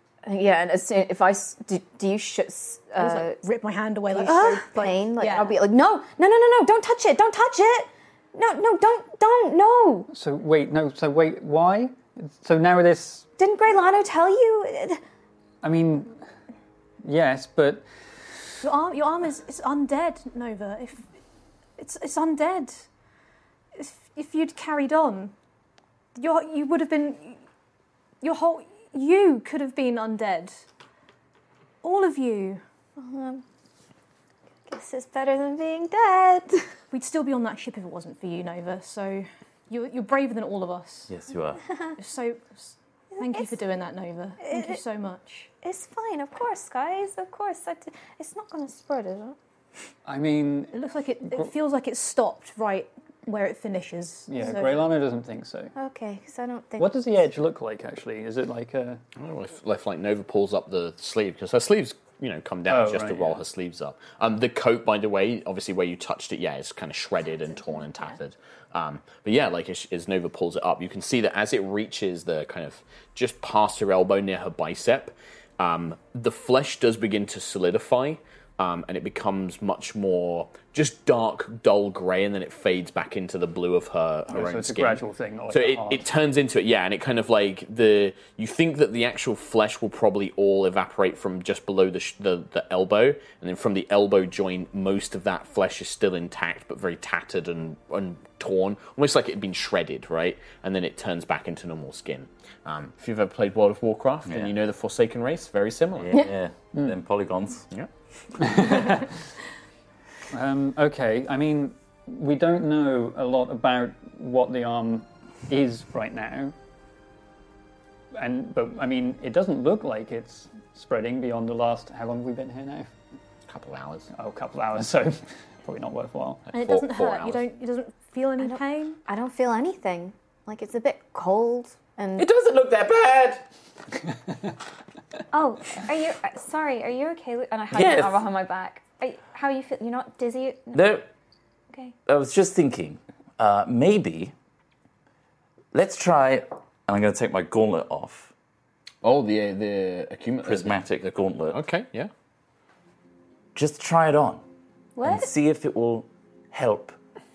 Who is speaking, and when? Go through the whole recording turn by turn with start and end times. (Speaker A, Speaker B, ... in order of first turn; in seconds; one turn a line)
Speaker A: 0.2-3.4
Speaker B: 3.0-5.6
Speaker A: 4.1-10.1
Speaker C: 10.1-13.3
Speaker A: 13.4-15.0
Speaker C: 15.6-16.1
Speaker C: 17.0-17.9
Speaker B: 18.6-21.1
Speaker B: 21.8-22.9
Speaker B: 23.8-25.3
Speaker B: 26.1-27.4
Speaker B: 28.2-30.6
Speaker B: 31.8-32.6
Speaker A: 33.0-33.4
Speaker A: 34.7-36.7
Speaker B: 36.9-41.1
Speaker D: 41.1-41.6
Speaker B: 42.0-45.5
Speaker A: 43.1-43.6
Speaker A: 44.4-44.8
Speaker A: 45.6-49.4
Speaker C: 50.1-50.7
Speaker B: 50.7-54.9
Speaker C: 54.3-55.7
Speaker A: 55.8-56.9
Speaker C: 56.8-59.0
Speaker E: 59.2-106.1
Speaker C: 62.7-63.4
Speaker A: 67.5-68.2
Speaker C: 84.3-86.0
Speaker D: 104.3-104.5
Speaker D: 106.0-107.7
Speaker C: 108.4-109.1
Speaker C: 110.3-116.5
Speaker C: 118.1-122.9
Speaker E: 123.5-124.1
Speaker C: 124.1-126.5
Speaker B: 126.5-129.0
Speaker E: 126.5-127.5
Speaker A: 128.4-132.3
Speaker D: 132.2-133.4
Speaker A: 135.3-140.9
Speaker D: 137.7-138.2
Speaker D: 140.7-141.1
Speaker D: 142.1-144.3
Speaker D: 145.7-148.3
Speaker E: 149.0-152.1
Speaker D: 150.4-151.6
Speaker D: 153.6-154.4
Speaker A: 155.0-155.3
Speaker D: 155.0-157.0